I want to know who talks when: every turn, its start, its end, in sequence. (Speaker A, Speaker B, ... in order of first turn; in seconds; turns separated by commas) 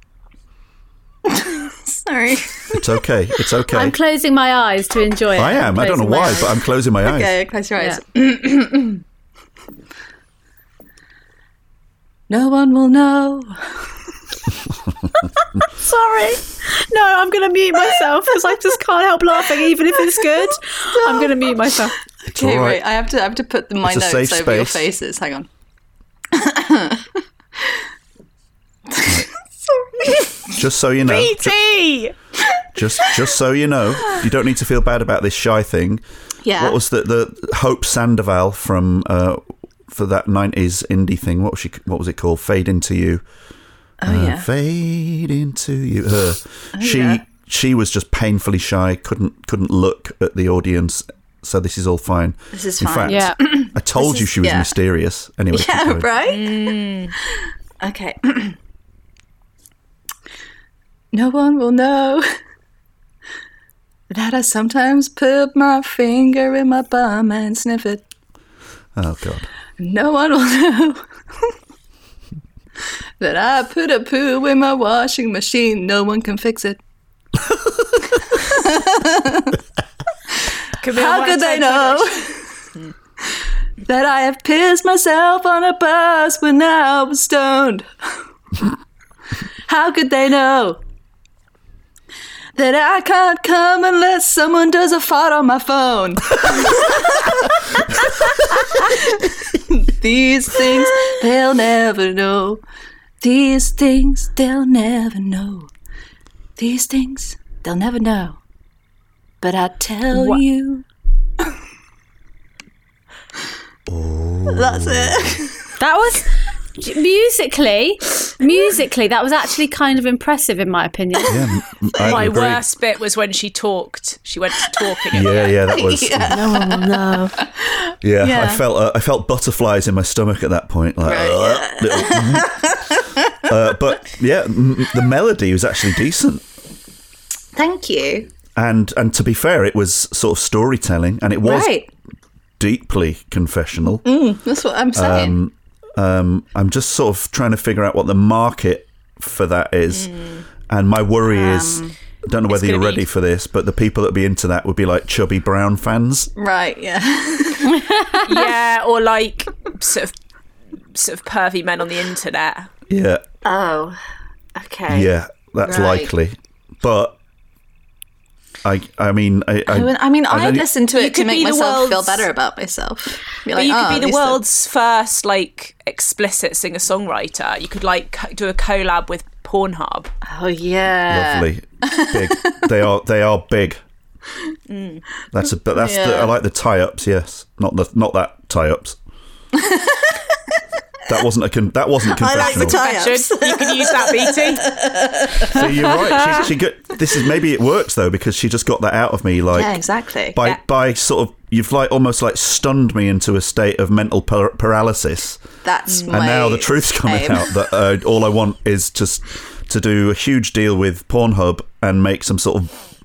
Speaker A: 1.2-2.9, Speaker B: 2.7-4.0, Speaker C: 3.7-6.6, Speaker B: 5.3-7.3, Speaker A: 7.0-9.0, Speaker A: 12.3-13.9, Speaker C: 15.7-22.0, Speaker A: 21.0-21.3, Speaker B: 22.3-22.8, Speaker A: 22.3-25.5, Speaker B: 23.8-24.9, Speaker A: 26.3-27.8, Speaker A: 28.9-30.5, Speaker B: 30.5-31.5, Speaker D: 31.0-32.1, Speaker B: 32.7-36.0, Speaker A: 36.4-36.8, Speaker B: 36.5-43.2, Speaker A: 44.0-44.5, Speaker B: 44.1-56.1, Speaker A: 46.7-47.2, Speaker A: 52.5-54.7, Speaker C: 53.0-53.4, Speaker A: 55.5-56.8, Speaker D: 56.2-57.1, Speaker A: 57.3-58.5, Speaker A: 61.1-62.3, Speaker A: 64.1-68.0, Speaker B: 69.0-69.5, Speaker A: 69.8-71.5, Speaker A: 73.2-76.8, Speaker B: 77.5-77.9, Speaker A: 78.2-79.6, Speaker A: 80.4-82.5, Speaker D: 80.8-82.1, Speaker A: 83.8-87.9, Speaker A: 89.7-90.8, Speaker A: 92.5-102.6, Speaker A: 103.2-105.7, Speaker A: 106.6-108.4, Speaker A: 109.4-110.8, Speaker C: 110.1-110.4, Speaker B: 113.9-115.4, Speaker A: 114.5-115.7, Speaker C: 115.8-121.5, Speaker B: 121.3-122.6, Speaker D: 122.0-125.6, Speaker B: 125.1-126.6, Speaker A: 125.7-128.6, Speaker C: 126.4-127.4, Speaker B: 128.0-132.7, Speaker A: 131.0-133.3, Speaker B: 133.4-136.4, Speaker A: 137.5-138.3, Speaker B: 138.6-141.7, Speaker A: 141.4-141.9, Speaker B: 142.6-144.1, Speaker A: 144.0-145.3, Speaker B: 144.9-150.1, Speaker D: 149.9-150.4, Speaker B: 150.7-156.3, Speaker A: 151.3-151.9, Speaker D: 152.5-153.0, Speaker A: 156.3-157.9, Speaker D: 158.2-160.1, Speaker D: 160.9-162.7, Speaker B: 162.9-163.2, Speaker A: 163.4-164.0, Speaker A: 164.6-165.1, Speaker B: 164.9-167.2, Speaker A: 165.6-166.1, Speaker B: 168.6-170.7, Speaker A: 169.7-174.4, Speaker D: 170.9-172.3, Speaker D: 173.5-180.1, Speaker A: 180.3-182.6, Speaker B: 181.1-183.8, Speaker D: 184.7-185.0, Speaker B: 185.3-189.0, Speaker A: 185.7-186.3, Speaker A: 189.5-190.4, Speaker B: 191.1-192.8, Speaker A: 192.1-196.5, Speaker D: 192.3-194.7, Speaker B: 195.4-199.8, Speaker A: 199.5-200.4, Speaker B: 200.3-205.4, Speaker A: 205.6-207.6, Speaker D: 205.9-206.1, Speaker B: 206.1-212.7